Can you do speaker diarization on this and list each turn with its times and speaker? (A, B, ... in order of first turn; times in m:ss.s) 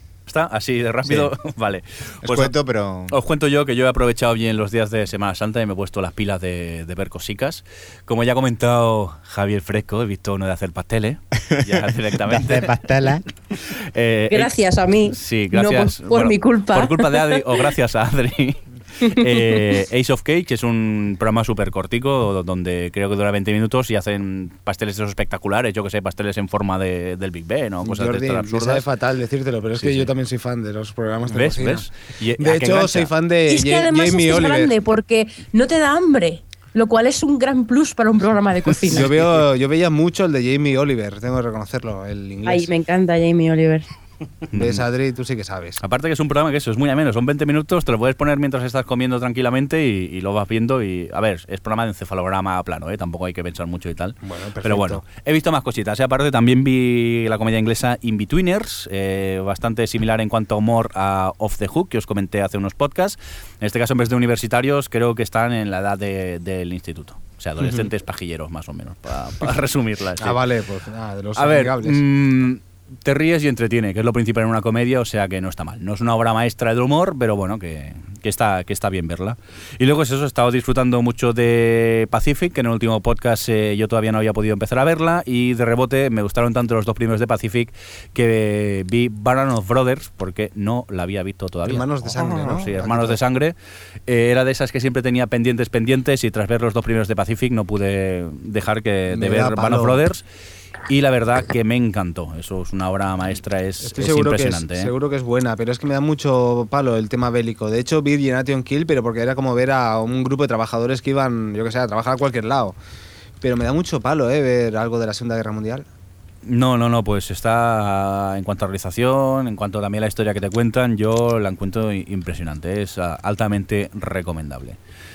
0:00.3-0:02.5 A
0:01.0-0:01.3 B
0:02.2-0:03.2 B
0:03.1-0:12.8 A
0:11.5-0:13.3 B
0:13.7-0:28.9 A
0:14.3-0:17.4 C
0:27.8-0:31.9 D
0:29.7-0:30.1 A
0:31.3-0:33.1 A
0:32.4-0:34.7 D
0:33.5-0:39.1 C
0:38.8-0:42.7 D
0:42.4-0:43.8 C
0:44.5-0:44.9 A
0:44.5-0:45.8 D
0:45.8-1:10.4 A
0:54.2-0:55.0 D
1:10.2-1:12.0 D
1:11.4-1:33.6 A
1:31.7-1:33.2 D
1:34.1-1:40.2 A
1:39.1-1:40.0 D
1:40.9-1:44.9 A
1:43.8-1:52.8 D
1:53.4-1:55.9 D
1:56.4-2:04.8 A